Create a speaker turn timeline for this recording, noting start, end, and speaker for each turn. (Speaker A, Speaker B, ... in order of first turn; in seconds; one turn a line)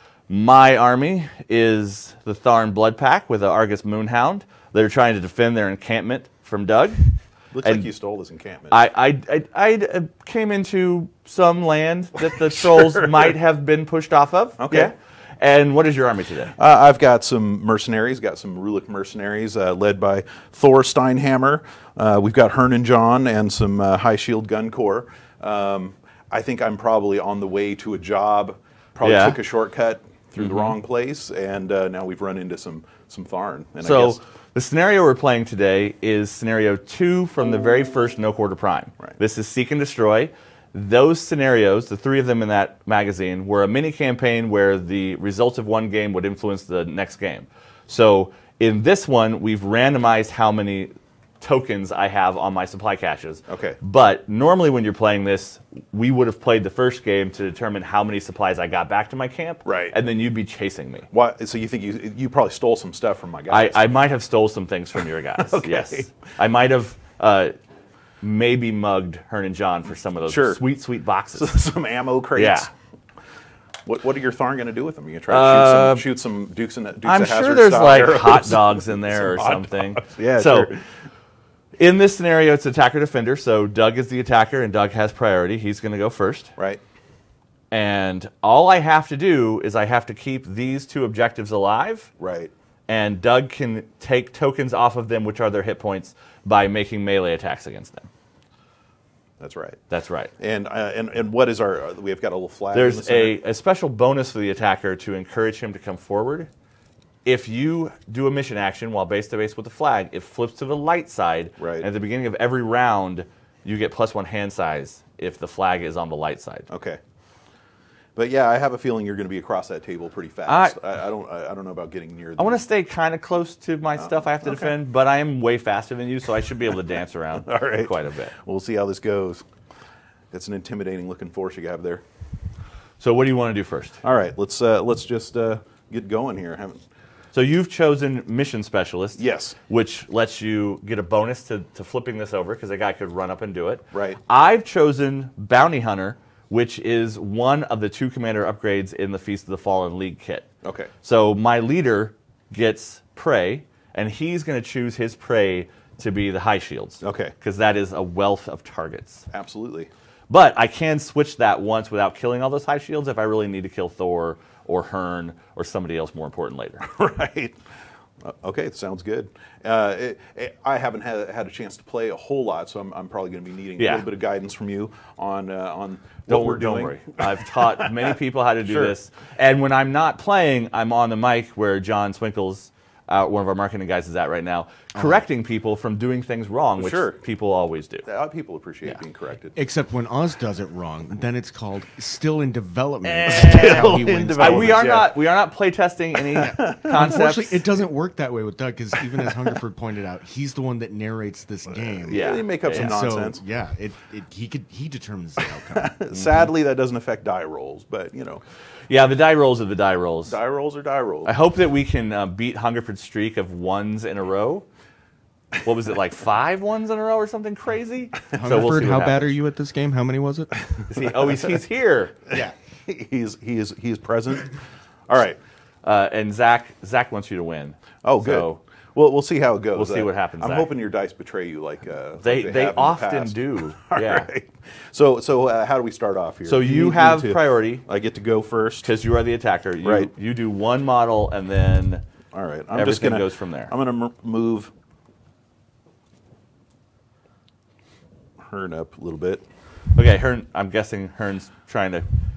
Speaker A: 0.3-7.9
Speaker B: 7.5-8.8
Speaker A: 8.7-16.5
Speaker B: 12.5-13.3
Speaker B: 14.6-14.9
Speaker B: 16.6-34.2
Speaker A: 29.0-29.4
Speaker A: 30.4-30.8
Speaker A: 33.8-61.1
Speaker B: 53.5-53.8
Speaker B: 59.6-59.9
Speaker B: 61.1-63.9
Speaker A: 63.5-67.5
Speaker B: 65.4-66.1
Speaker A: 68.2-71.6
Speaker B: 70.3-70.6
Speaker B: 71.3-72.7
Speaker A: 72.3-72.7
Speaker B: 73.8-80.9
Speaker A: 75.3-76.0
Speaker A: 77.0-80.7
Speaker A: 81.8-86.5
Speaker B: 86.5-86.8
Speaker A: 87.7-92.1
Speaker B: 92.2-92.5
Speaker A: 92.9-98.1
Speaker B: 99.4-99.8
Speaker A: 99.9-100.3
Speaker B: 100.4-103.3
Speaker A: 102.7-106.5
Speaker A: 107.2-116.7
Speaker B: 111.6-111.9
Speaker B: 116.7-117.0
Speaker B: 118.2-122.6
Speaker A: 120.5-120.8
Speaker A: 122.4-128.3
Speaker B: 124.0-124.7
Speaker B: 127.4-129.4
Speaker B: 130.3-132.0
Speaker A: 133.0-134.0
Speaker B: 134.0-136.8
Speaker A: 137.3-150.5
Speaker B: 139.2-139.6
Speaker B: 143.9-144.2
Speaker B: 150.6-150.9
Speaker A: 151.0-159.3
Speaker B: 157.0-157.3
Speaker B: 159.3-159.9
Speaker A: 160.3-166.9
Speaker B: 166.8-167.6
Speaker B: 168.2-178.9
Speaker A: 173.8-174.1
Speaker A: 176.3-188.1
Speaker B: 186.8-187.2
Speaker B: 188.0-189.6
Speaker C: 189.5-194.9
Speaker A: 193.1-197.6
Speaker B: 193.2-195.1
Speaker B: 196.4-197.2
Speaker C: 196.4-206.5
Speaker B: 201.9-203.4
Speaker A: 202.1-203.0
Speaker B: 205.4-208.4
Speaker A: 208.9-210.4
Speaker B: 210.3-211.3
Speaker A: 211.2-214.6
Speaker A: 215.6-219.3
Speaker C: 218.3-220.8
Speaker A: 220.9-222.4
Speaker B: 222.8-225.4
Speaker A: 225.8-228.6
Speaker B: 228.0-238.9
Speaker A: 229.7-230.7
Speaker A: 232.2-234.3
Speaker A: 236.4-237.8
Speaker A: 238.8-242.0
Speaker B: 239.8-240.1
Speaker B: 242.3-244.7
Speaker A: 242.7-243.7
Speaker B: 248.4-249.4
Speaker A: 249.9-252.1